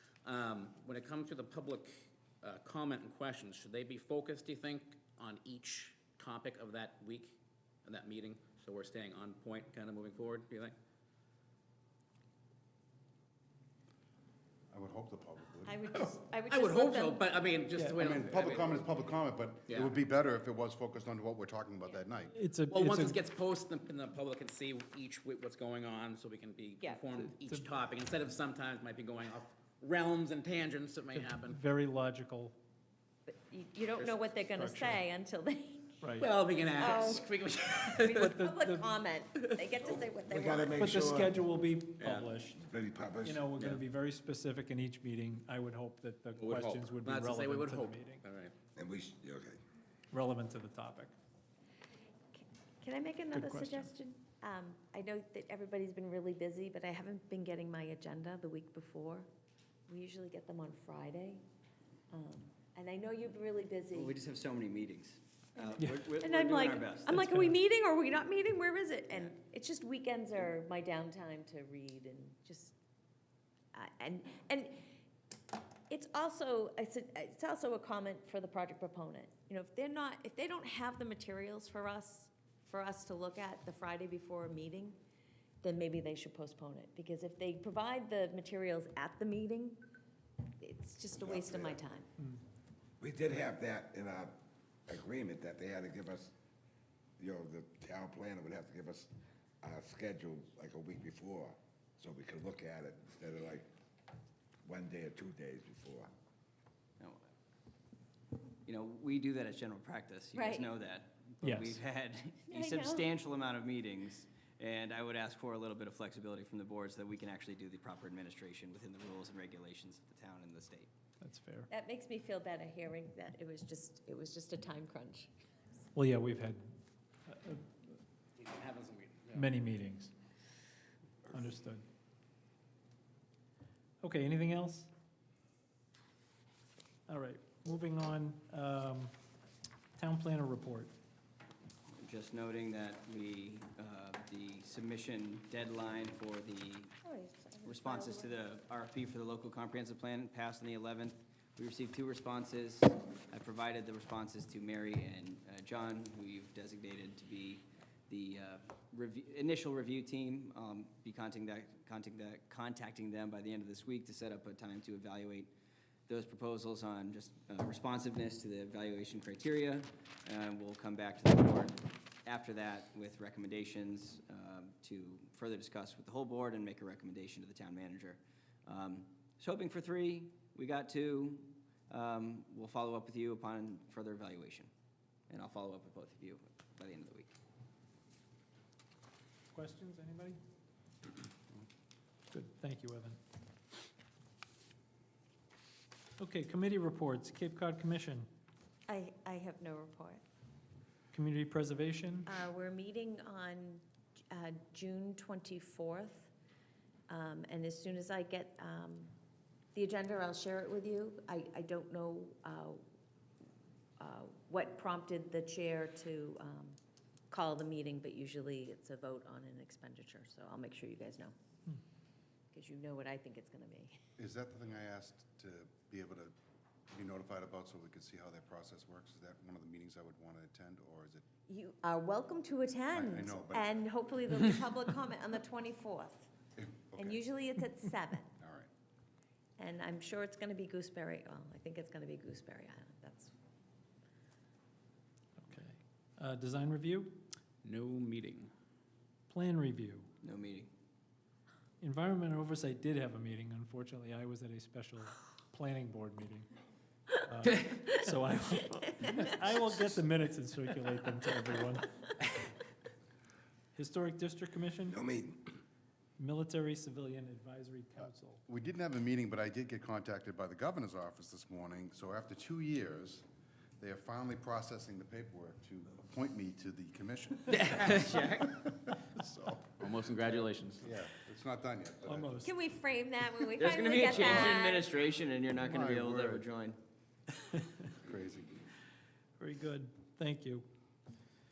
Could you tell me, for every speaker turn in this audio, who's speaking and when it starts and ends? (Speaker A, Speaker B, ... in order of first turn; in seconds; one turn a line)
Speaker A: 0.2-10.7
Speaker B: 14.7-15.8
Speaker C: 15.7-17.3
Speaker A: 15.9-18.9
Speaker B: 17.9-22.3
Speaker D: 22.3-23.2
Speaker A: 22.7-31.6
Speaker D: 31.1-32.5
Speaker C: 33.3-36.1
Speaker D: 34.5-35.0
Speaker D: 36.0-36.3
Speaker A: 36.2-38.3
Speaker C: 36.7-41.0
Speaker D: 38.2-38.9
Speaker E: 39.8-41.5
Speaker D: 40.8-42.6
Speaker A: 42.0-42.3
Speaker E: 42.5-43.5
Speaker D: 43.2-48.2
Speaker A: 43.5-43.8
Speaker A: 46.4-48.5
Speaker E: 48.8-49.6
Speaker D: 50.1-51.1
Speaker C: 52.3-59.3
Speaker D: 53.3-53.9
Speaker C: 59.9-61.4
Speaker C: 62.1-64.2
Speaker F: 63.9-67.5
Speaker C: 65.6-72.7
Speaker C: 73.7-74.9
Speaker C: 75.9-85.0
Speaker C: 85.6-89.8
Speaker C: 90.6-92.1
Speaker E: 91.2-91.8
Speaker E: 93.0-94.3
Speaker E: 94.9-96.3
Speaker E: 97.2-99.1
Speaker E: 99.6-103.7
Speaker E: 104.7-106.1
Speaker F: 108.6-120.9
Speaker C: 110.3-110.7
Speaker D: 111.4-111.8
Speaker C: 112.5-113.1
Speaker D: 121.2-121.7
Speaker C: 121.7-125.3
Speaker D: 125.9-126.7
Speaker D: 127.3-127.7
Speaker A: 128.3-129.5
Speaker D: 129.3-130.1
Speaker D: 131.3-131.8
Speaker D: 134.0-134.9
Speaker D: 137.1-139.1
Speaker D: 139.9-140.9
Speaker F: 141.9-146.9
Speaker C: 147.0-148.4
Speaker F: 147.6-165.5
Speaker F: 166.1-184.7
Speaker F: 185.3-187.3
Speaker D: 189.5-190.4
Speaker D: 192.3-193.2
Speaker D: 196.2-198.3
Speaker C: 198.9-200.2
Speaker D: 201.1-202.2
Speaker C: 202.2-206.3
Speaker C: 207.1-209.1
Speaker C: 209.7-212.8
Speaker C: 214.0-216.8
Speaker C: 217.3-221.3
Speaker C: 222.5-224.0
Speaker B: 224.2-226.3
Speaker B: 226.9-231.2
Speaker C: 231.5-236.3
Speaker B: 232.9-233.8
Speaker B: 236.6-237.2
Speaker C: 236.9-238.3
Speaker B: 238.4-238.7
Speaker C: 239.6-243.3
Speaker D: 245.4-247.2
Speaker A: 247.6-248.5
Speaker D: 249.3-250.1
Speaker F: 250.2-250.7
Speaker D: 251.8-256.5
Speaker D: 257.2-261.9
Speaker D: 263.7-264.9
Speaker E: 264.9-265.5
Speaker D: 266.2-268.4
Speaker B: 268.5-273.2
Speaker B: 273.8-279.9
Speaker F: 277.7-278.7
Speaker A: 279.8-280.9
Speaker B: 280.8-282.4
Speaker D: 282.1-282.5
Speaker C: 282.4-284.9
Speaker F: 283.5-286.8
Speaker B: 284.1-284.6
Speaker B: 285.6-286.4
Speaker B: 288.0-288.6
Speaker D: 289.4-290.7